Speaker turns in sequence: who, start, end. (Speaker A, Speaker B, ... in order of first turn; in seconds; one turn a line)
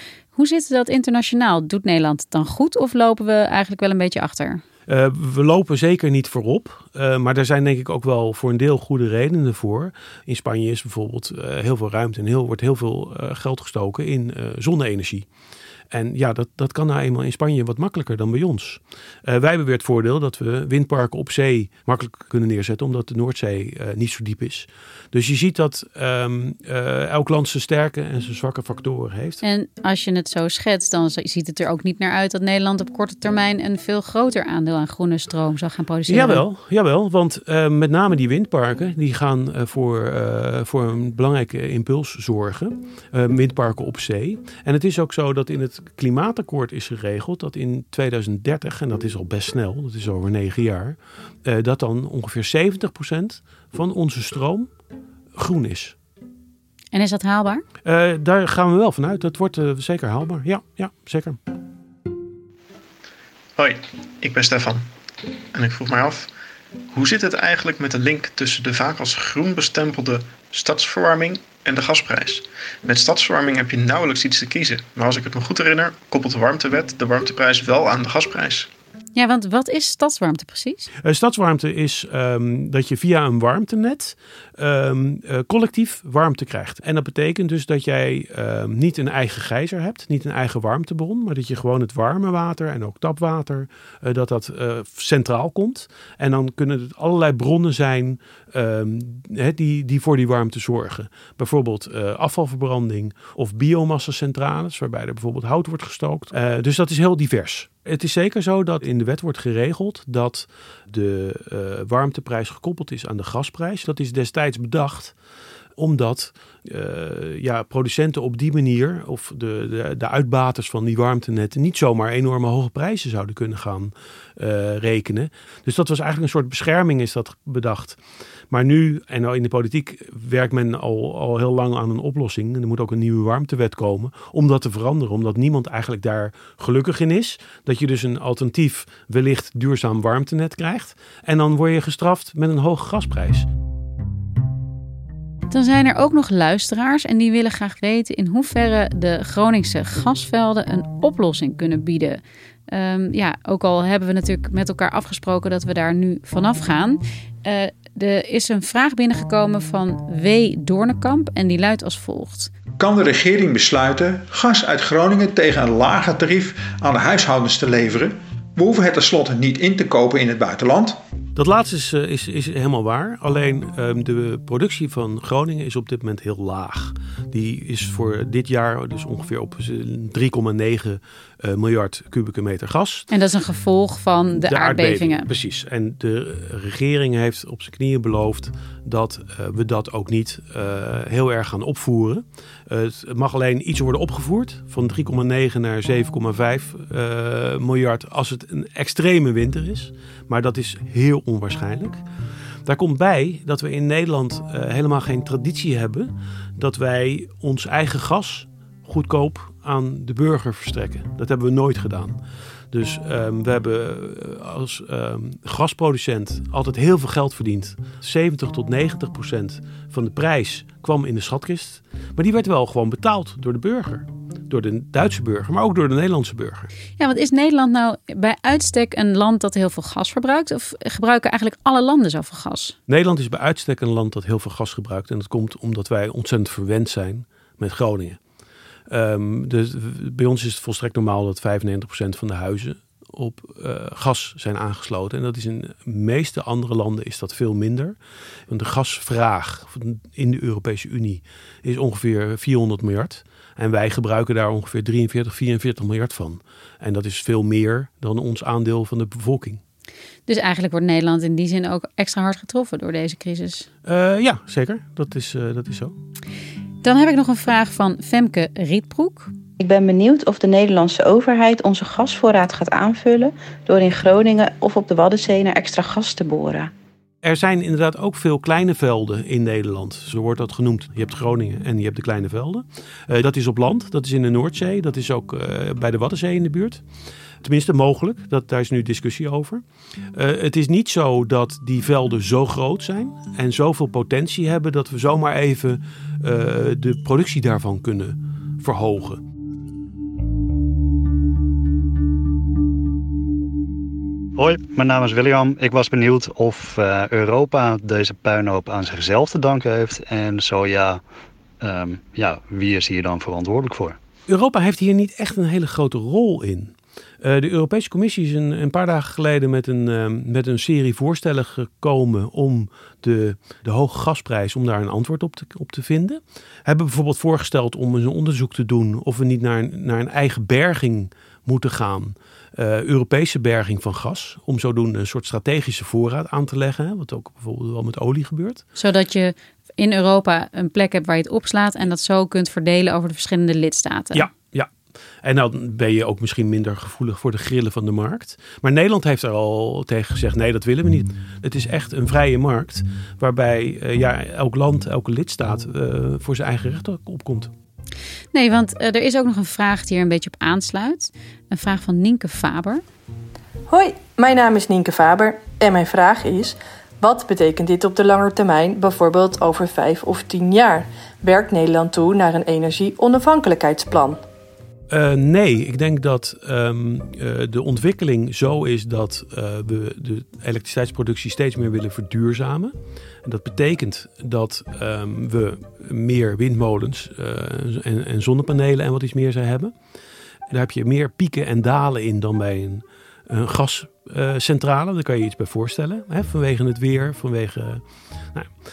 Speaker A: 0.3-4.6
Speaker B: 4.9-15.3
Speaker B: 15.9-29.4
Speaker A: 29.4-36.4
Speaker B: 36.1-54.7
Speaker B: 55.4-56.0
Speaker A: 56.9-57.6
Speaker B: 57.8-61.4
Speaker C: 63.6-64.8
Speaker C: 65.5-66.3
Speaker C: 66.9-78.7
Speaker A: 79.1-80.9
Speaker B: 81.0-115.1
Speaker B: 115.8-128.0
Speaker B: 128.5-143.5
Speaker A: 145.5-162.5
Speaker D: 162.8-171.0
Speaker B: 171.3-183.1
Speaker A: 183.1-185.3
Speaker B: 184.4-202.0
Speaker B: 202.7-212.2
Speaker B: 212.7-226.7
Speaker A: 227.0-232.8
Speaker B: 232.9-238.2
Speaker B: 238.9-248.0
Speaker B: 248.5-259.6
Speaker A: 260.3-263.7
Speaker B: 263.9-265.9
Speaker A: 266.8-269.3
Speaker E: 269.6-276.7
Speaker B: 277.2-286.8
Speaker B: 287.4-289.6
Speaker B: 290.1-299.2
Speaker F: 304.4-311.0
Speaker F: 311.6-314.0
Speaker B: 314.3-338.6
Speaker A: 338.8-344.2
Speaker B: 344.1-344.7
Speaker B: 345.2-357.5
Speaker A: 358.3-362.8
Speaker G: 363.7-374.2
Speaker B: 374.9-382.7
Speaker B: 383.2-389.7
Speaker B: 390.5-398.5